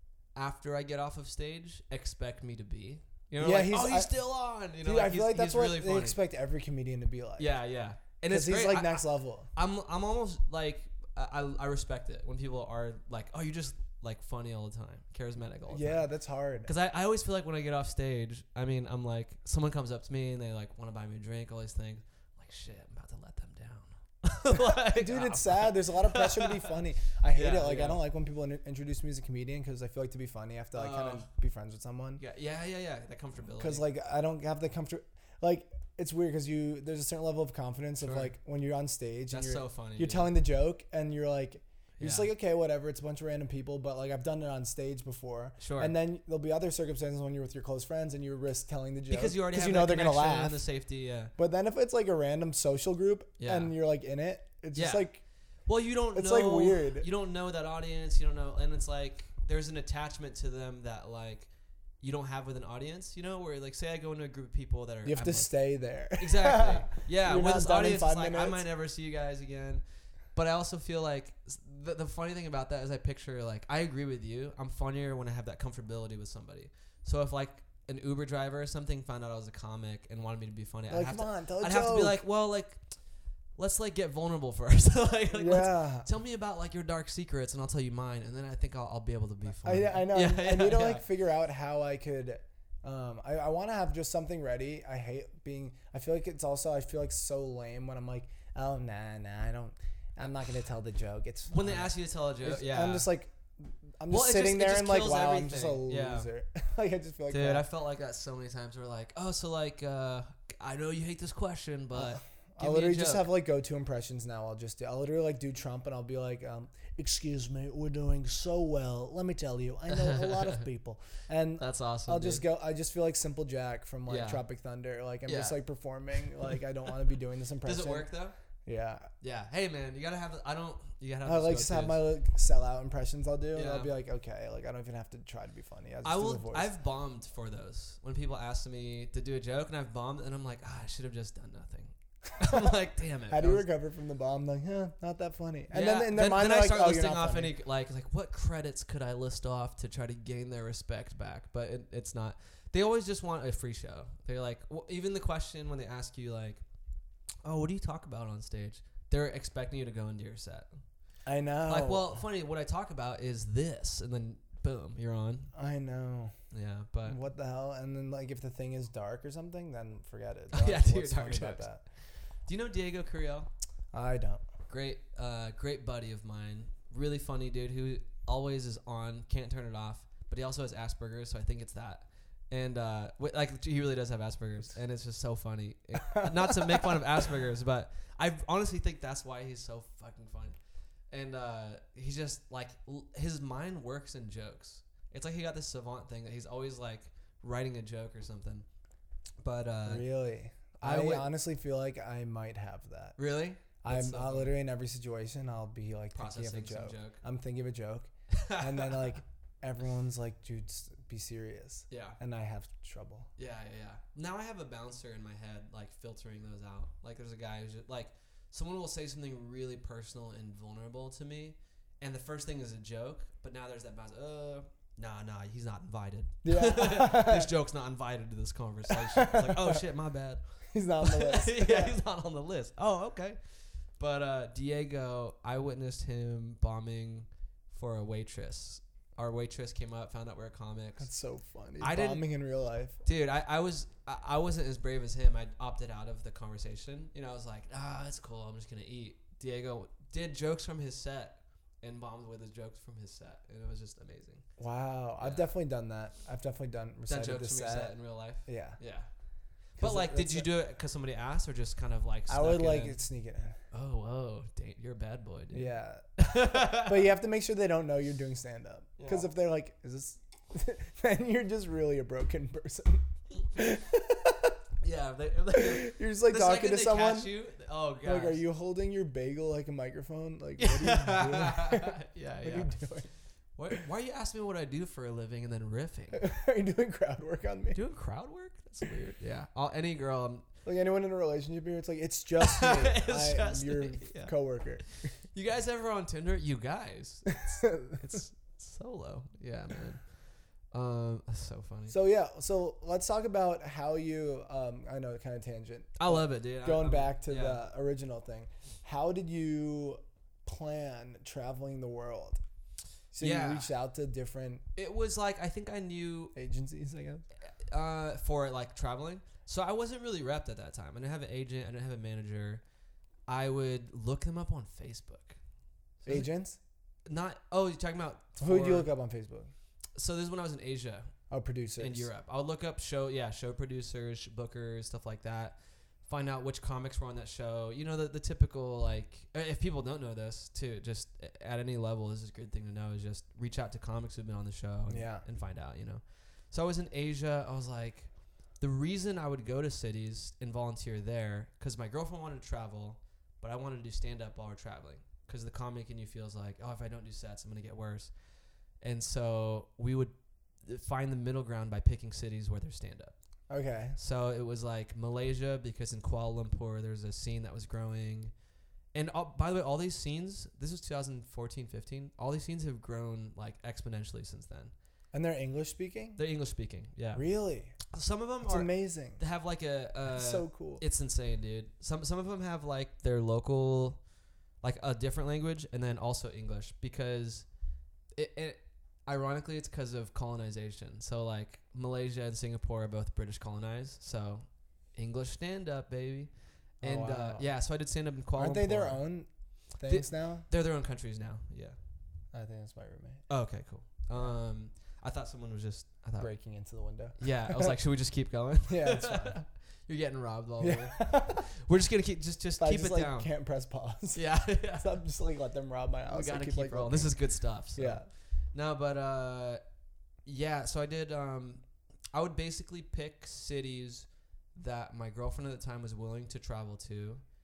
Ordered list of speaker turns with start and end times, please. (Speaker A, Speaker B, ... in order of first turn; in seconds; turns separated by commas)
Speaker A: 0.3-6.2, Speaker B: 3.4-4.1, Speaker B: 4.8-7.6, Speaker A: 7.4-16.1, Speaker B: 8.3-9.5, Speaker B: 15.7-16.7, Speaker A: 16.6-26.7, Speaker B: 24.6-32.2, Speaker A: 27.3-28.0, Speaker A: 30.7-31.3, Speaker A: 32.2-33.9, Speaker B: 33.6-50.7, Speaker A: 38.0-38.3, Speaker A: 39.3-40.3, Speaker A: 42.0-42.3, Speaker A: 45.6-45.9, Speaker A: 49.1-51.3, Speaker B: 51.4-55.2, Speaker A: 53.4-53.7, Speaker A: 54.7-55.1, Speaker A: 55.6-65.5, Speaker B: 56.1-57.1, Speaker B: 65.0-68.6, Speaker A: 66.2-83.0, Speaker B: 80.9-82.2, Speaker A: 83.5-91.0, Speaker B: 85.3-86.1, Speaker B: 89.6-107.7, Speaker A: 101.5-103.1, Speaker A: 104.1-106.3, Speaker A: 107.3-113.3, Speaker B: 111.9-128.1, Speaker A: 119.9-120.6, Speaker A: 121.6-122.4, Speaker A: 124.1-124.4, Speaker A: 125.2-125.6, Speaker A: 126.2-126.6, Speaker A: 127.6-128.3, Speaker B: 128.6-129.1, Speaker A: 129.2-132.0, Speaker B: 131.2-136.7, Speaker A: 133.5-133.9, Speaker A: 136.0-143.7, Speaker B: 142.4-142.7, Speaker B: 143.3-147.5, Speaker A: 145.7-156.6, Speaker A: 157.4-160.7, Speaker B: 161.2-162.2, Speaker A: 161.7-165.5, Speaker B: 165.5-166.3, Speaker A: 166.5-167.2, Speaker B: 167.0-171.8, Speaker A: 170.5-173.5, Speaker B: 173.9-174.4, Speaker A: 174.7-190.6, Speaker B: 186.2-186.8, Speaker A: 191.1-198.7, Speaker A: 199.4-200.1, Speaker B: 199.8-203.2, Speaker A: 200.8-201.3, Speaker A: 203.2-204.5, Speaker B: 203.8-213.3, Speaker A: 206.1-207.2, Speaker A: 208.3-209.0, Speaker A: 211.9-212.2, Speaker A: 213.4-233.4, Speaker B: 226.4-227.5, Speaker B: 228.9-229.8, Speaker B: 230.7-232.0, Speaker A: 234.0-241.1, Speaker B: 241.0-243.0, Speaker A: 241.8-242.2, Speaker A: 243.0-254.4, Speaker B: 254.6-257.9, Speaker A: 255.2-255.5, Speaker A: 257.1-259.1, Speaker B: 258.4-258.8, Speaker B: 259.8-260.5, Speaker A: 259.8-263.0, Speaker B: 262.3-263.6, Speaker A: 263.7-267.0, Speaker B: 265.5-274.6, Speaker A: 269.0-269.3, Speaker A: 274.8-278.4, Speaker B: 275.5-277.3, Speaker B: 278.0-283.1, Speaker A: 280.6-282.7, Speaker A: 283.6-286.2, Speaker B: 286.1-287.8, Speaker A: 287.7-290.5, Speaker B: 290.6-295.1, Speaker A: 292.4-294.3, Speaker A: 295.3-300.1, Speaker B: 297.5-298.0, Speaker A: 300.7-301.9, Speaker B: 301.9-312.4, Speaker A: 306.0-307.6, Speaker B: 313.1-314.6, Speaker A: 313.2-313.7, Speaker A: 314.8-316.3, Speaker B: 316.3-317.2, Speaker A: 317.5-322.6, Speaker A: 323.3-325.4, Speaker A: 326.0-326.3, Speaker B: 326.0-326.6, Speaker A: 327.1-328.9, Speaker B: 328.4-329.5, Speaker A: 329.9-331.1, Speaker B: 331.3-332.1, Speaker A: 331.8-358.1, Speaker B: 344.9-345.2, Speaker A: 358.8-360.1, Speaker A: 360.6-363.1, Speaker B: 363.5-364.0, Speaker A: 363.9-368.3, Speaker A: 368.9-374.7, Speaker B: 375.1-376.2, Speaker A: 376.2-377.2, Speaker B: 377.1-377.8, Speaker A: 377.9-384.0, Speaker B: 378.4-379.2, Speaker B: 380.1-380.8, Speaker A: 384.6-387.5, Speaker A: 388.1-399.0, Speaker B: 396.8-397.5, Speaker B: 398.4-400.5, Speaker A: 399.8-401.8, Speaker B: 402.3-403.3, Speaker A: 403.3-406.3, Speaker B: 406.2-407.7, Speaker A: 407.2-413.3, Speaker B: 408.7-409.4, Speaker B: 410.6-411.4, Speaker B: 412.6-417.2, Speaker A: 414.1-415.0, Speaker A: 416.1-419.6, Speaker B: 417.7-418.1, Speaker A: 420.2-427.2